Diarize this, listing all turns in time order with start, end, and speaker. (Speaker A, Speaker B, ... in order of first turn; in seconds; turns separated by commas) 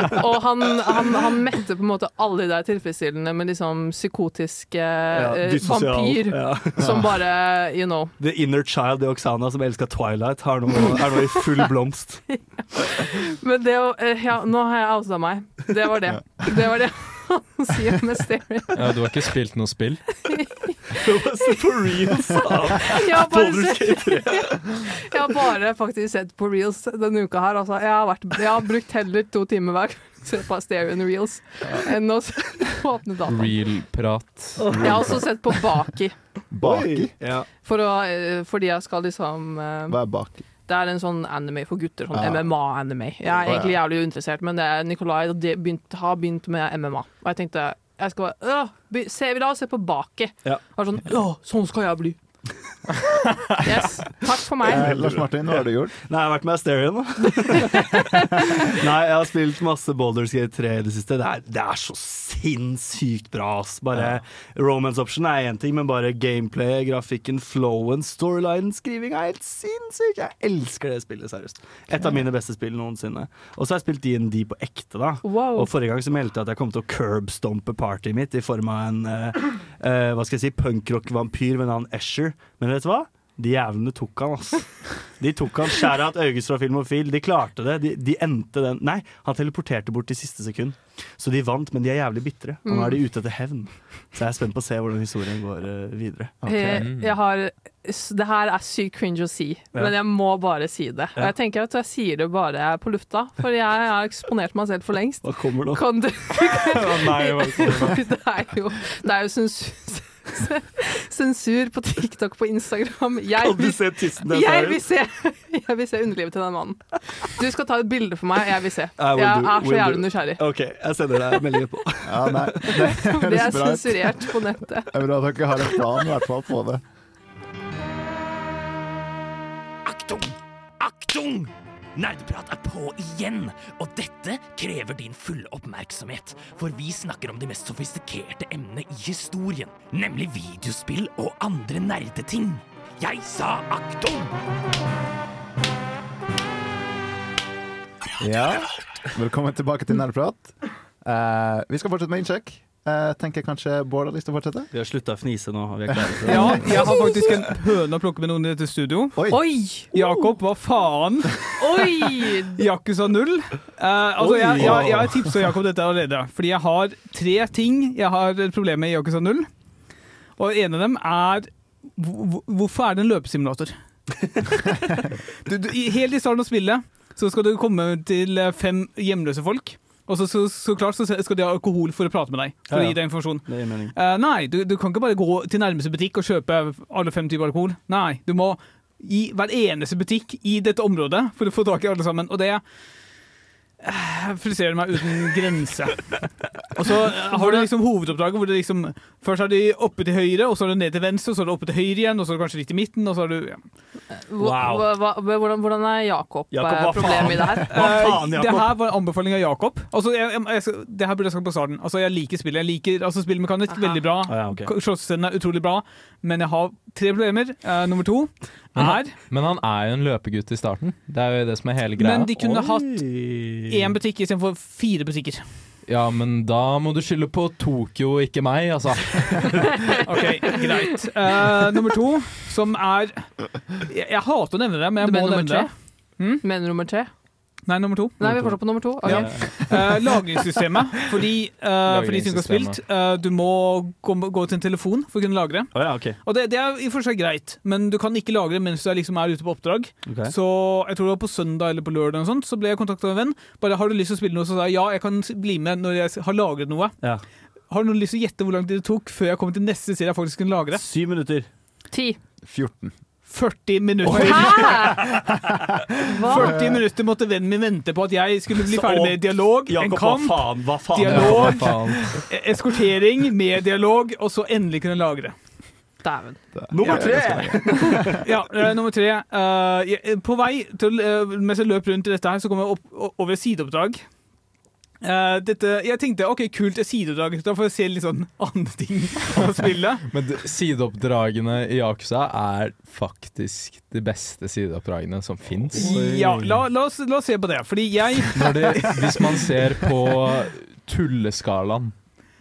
Speaker A: 0.1-8.1, Speaker B: 5.1-7.1, Speaker B: 8.2-12.4, Speaker A: 12.3-18.8, Speaker C: 16.1-16.4, Speaker D: 18.7-20.3, Speaker B: 20.9-24.8, Speaker A: 22.9-33.5, Speaker D: 33.3-34.9, Speaker B: 34.6-35.2, Speaker C: 34.8-35.2, Speaker A: 34.8-36.2, Speaker C: 36.5-37.3, Speaker B: 36.6-37.5, Speaker A: 37.6-40.0, Speaker C: 39.9-40.4, Speaker A: 40.7-52.1, Speaker C: 42.1-42.5, Speaker C: 43.5-43.7, Speaker A: 53.6-54.9, Speaker C: 54.7-56.0, Speaker B: 54.7-96.4, Speaker A: 75.2-75.7, Speaker A: 92.7-93.0, Speaker C: 96.4-96.8, Speaker A: 96.5-120.4, Speaker D: 96.8-97.1, Speaker B: 105.2-106.0, Speaker B: 106.6-107.9, Speaker B: 113.4-114.8, Speaker B: 119.0-122.5, Speaker C: 122.0-126.8, Speaker A: 122.9-125.0, Speaker E: 129.8-144.3, Speaker C: 148.2-154.7, Speaker B: 154.7-156.8, Speaker C: 156.0-156.8, Speaker F: 156.3-159.4, Speaker C: 159.2-159.4, Speaker A: 159.3-160.3, Speaker F: 159.9-161.5, Speaker A: 161.6-162.6, Speaker F: 162.6-169.5, Speaker B: 164.2-165.3, Speaker C: 164.6-165.2, Speaker F: 170.4-173.8, Speaker F: 174.6-193.2, Speaker B: 182.7-183.9, Speaker F: 193.8-203.6, Speaker A: 197.4-197.7, Speaker A: 204.1-207.7, Speaker B: 204.4-204.9, Speaker B: 206.5-208.8, Speaker F: 207.0-219.2, Speaker A: 213.7-214.1, Speaker B: 214.3-214.7, Speaker D: 219.3-222.3, Speaker F: 222.0-223.2, Speaker B: 222.4-223.9, Speaker F: 223.7-225.5, Speaker D: 225.9-229.8, Speaker F: 230.1-236.4, Speaker A: 235.0-237.6, Speaker F: 237.6-238.2, Speaker A: 238.2-239.5, Speaker B: 238.2-239.9, Speaker F: 238.8-257.1, Speaker D: 241.8-242.8, Speaker B: 245.7-246.2, Speaker B: 250.1-250.3, Speaker F: 257.6-260.8, Speaker B: 260.7-261.5, Speaker A: 261.9-262.2, Speaker C: 262.4-263.1, Speaker F: 263.2-264.9, Speaker C: 264.0-264.8, Speaker A: 264.2-265.1, Speaker A: 266.1-266.5, Speaker F: 266.3-275.4, Speaker C: 266.4-266.8, Speaker B: 268.6-272.2, Speaker C: 271.1-272.2, Speaker A: 276.0-277.0, Speaker C: 276.5-277.9, Speaker B: 276.7-278.2, Speaker F: 278.2-284.1, Speaker F: 285.0-290.1, Speaker D: 290.1-295.9, Speaker F: 295.7-298.8, Speaker B: 295.7-296.6, Speaker D: 298.4-302.2